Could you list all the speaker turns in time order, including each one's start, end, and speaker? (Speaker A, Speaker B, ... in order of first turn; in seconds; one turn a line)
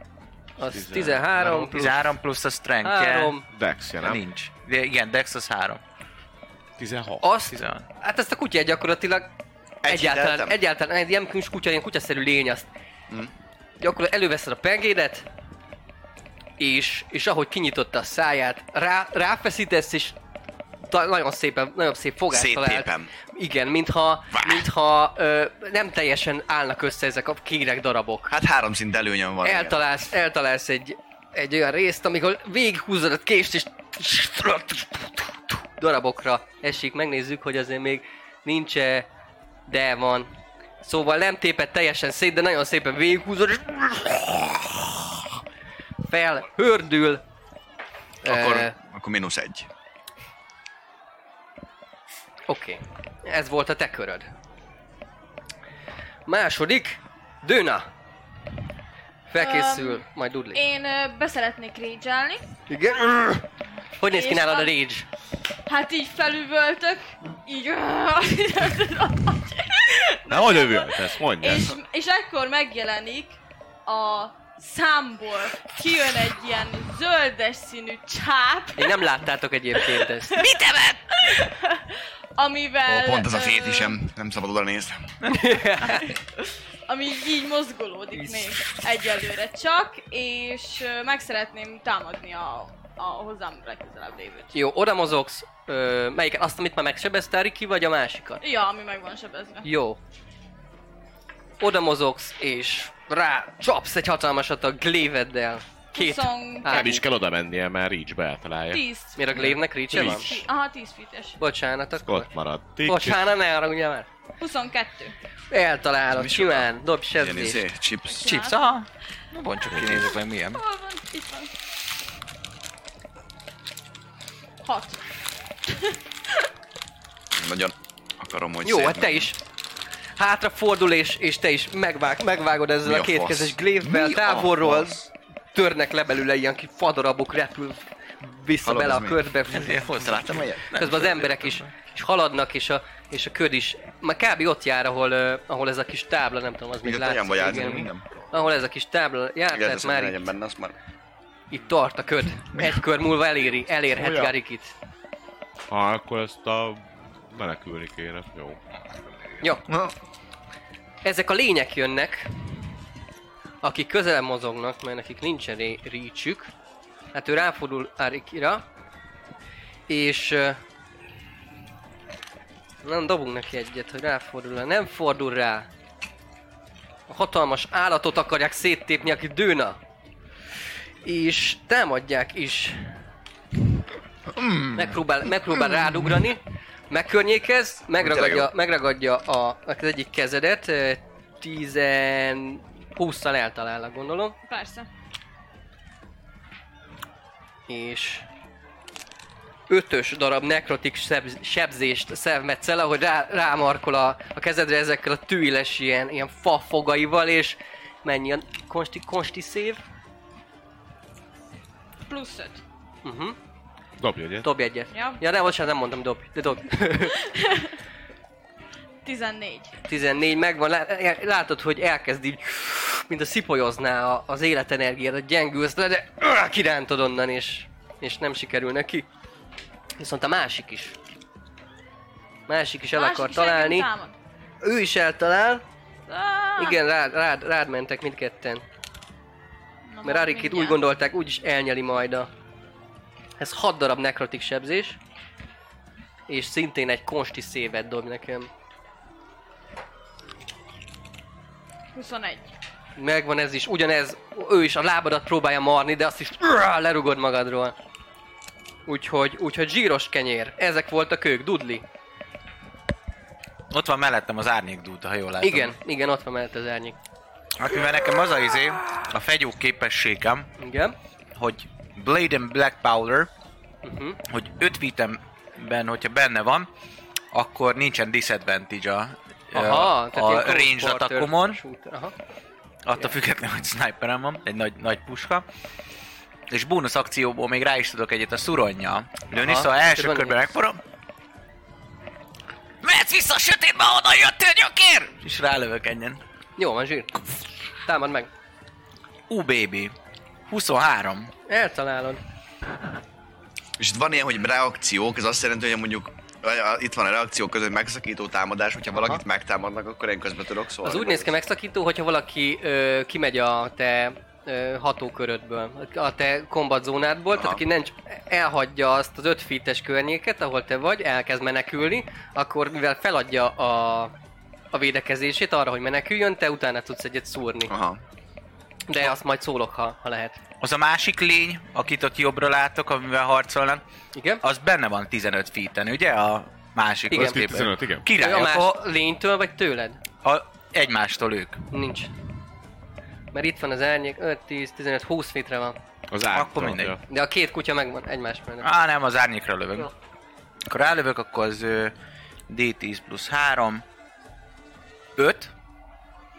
Speaker A: 0.6-2.1
Speaker B: 0.7-1.4
Speaker C: 1.4-3.4
Speaker A: 2.8-3.4
Speaker B: 3.5-4.2
Speaker C: 4.0-5.8
Speaker B: 6.8-7.3
Speaker A: 7.2-9.3
Speaker C: 7.5-7.8
Speaker D: 9.8-10.6
Speaker A: 9.8-12.7
Speaker A: 13.8-15.2
Speaker A: 16.6-20.1
Speaker A: 20.9-28.3
Speaker D: 22.3-23.1
Speaker D: 24.3-24.6
Speaker D: 28.3-29.8
Speaker A: 29.4-39.1
Speaker A: 39.7-40.3
Speaker A: 40.8-45.2
Speaker A: 46.1-47.2
Speaker A: 48.2-48.7
Speaker D: 48.2-49.7
Speaker A: 52.5-54.3
Speaker A: 56.3-57.9
Speaker A: 59.3-60.6
Speaker E: 59.4-62.5
Speaker A: 62.7-63.5
Speaker A: 64.0-65.0
Speaker E: 64.0-64.7
Speaker E: 65.7-79.0
Speaker B: 70.3-71.8
Speaker A: 78.8-80.4
Speaker E: 79.8-84.0
Speaker D: 82.8-85.1
Speaker A: 85.3-86.1
Speaker E: 85.9-94.5
Speaker A: 88.1-88.5
Speaker A: 94.5-98.4
Speaker E: 98.4-99.7
Speaker A: 99.6-100.0
Speaker A: 101.6-107.0
Speaker E: 105.9-107.0
Speaker B: 106.7-108.8
Speaker E: 108.7-109.3
Speaker A: 109.2-110.3
Speaker B: 109.9-110.4
Speaker E: 109.9-111.4
Speaker A: 111.4-112.3
Speaker B: 112.0-113.2
Speaker A: 112.8-114.1
Speaker E: 114.4-115.1
Speaker A: 115.5-117.6
Speaker D: 116.1-118.3
Speaker E: 118.0-118.7
Speaker C: 118.2-120.6
Speaker B: 119.7-120.2
Speaker E: 120.5-121.5
Speaker E: 124.6-125.1
Speaker E: 125.7-126.0
Speaker D: 127.3-129.3
Speaker A: 128.6-129.4
Speaker A: 130.2-135.0
Speaker D: 132.8-135.1
Speaker A: 135.5-139.9
Speaker D: 138.6-139.2
Speaker C: 139.5-141.7
Speaker D: 139.9-140.8
Speaker A: 140.7-150.3
Speaker D: 146.8-148.0
Speaker B: 147.5-147.8
Speaker D: 149.5-150.7
Speaker A: 151.5-154.7
Speaker B: 154.0-154.3
Speaker B: 155.7-158.6
Speaker D: 159.7-159.9
Speaker A: 161.0-162.4
Speaker A: 163.6-166.5
Speaker A: 167.1-168.6
Speaker A: 169.9-170.6
Speaker A: 172.8-175.7
Speaker A: 177.1-179.8
Speaker A: 181.0-182.9
Speaker D: 184.3-184.9
Speaker A: 184.7-194.3
Speaker D: 188.0-188.5
Speaker E: 194.4-194.9
Speaker A: 197.7-198.2
Speaker A: 199.7-209.8
Speaker E: 212.1-212.6
Speaker A: 213.0-213.3
Speaker B: 214.0-214.5
Speaker A: 214.4-217.2
Speaker E: 214.9-215.2
Speaker E: 217.2-217.7
Speaker E: 219.0-219.7
Speaker A: 219.9-229.0
Speaker A: 230.0-230.9
Speaker A: 232.5-233.9
Speaker E: 232.9-234.1
Speaker A: 234.6-235.6
Speaker E: 236.1-236.8
Speaker A: 236.6-238.6
Speaker E: 239.9-240.8
Speaker A: 240.0-242.3
Speaker A: 243.4-245.0
Speaker A: 246.3-248.5
Speaker E: 251.9-252.5
Speaker A: 253.0-257.7
Speaker A: 258.9-261.8
Speaker C: 263.7-265.7
Speaker A: 265.4-266.9
Speaker C: 267.6-270.5
Speaker A: 270.6-270.9
Speaker C: 271.3-273.3
Speaker A: 273.8-274.2
Speaker C: 274.3-276.7
Speaker C: 277.3-281.6
Speaker A: 279.5-282.1
Speaker C: 282.9-285.4
Speaker C: 286.5-290.8
Speaker A: 289.3-290.4
Speaker C: 292.8-296.2
Speaker A: 296.6-297.2
Speaker A: 297.8-298.3
Speaker C: 299.3-299.9
Speaker C: 300.5-301.3
Speaker A: 301.5-302.2
Speaker D: 303.8-311.3
Speaker A: 308.9-309.2
Speaker A: 310.8-324.1
Speaker D: 317.3-317.6
Speaker A: 324.7-327.7
Speaker D: 327.7-328.0
Speaker A: 328.9-330.4
Speaker C: 330.6-333.8
Speaker A: 334.1-334.4
Speaker C: 334.4-338.7
Speaker A: 337.1-337.4
Speaker B: 337.1-338.1
Speaker A: 338.2-340.0
Speaker C: 340.2-341.6
Speaker A: 341.7-342.1
Speaker A: 343.3-345.8
Speaker B: 346.1-347.0
Speaker C: 346.3-346.9
Speaker A: 347.1-348.7
Speaker C: 348.6-349.9
Speaker C: 350.7-351.9
Speaker C: 352.5-353.8
Speaker C: 355.2-355.5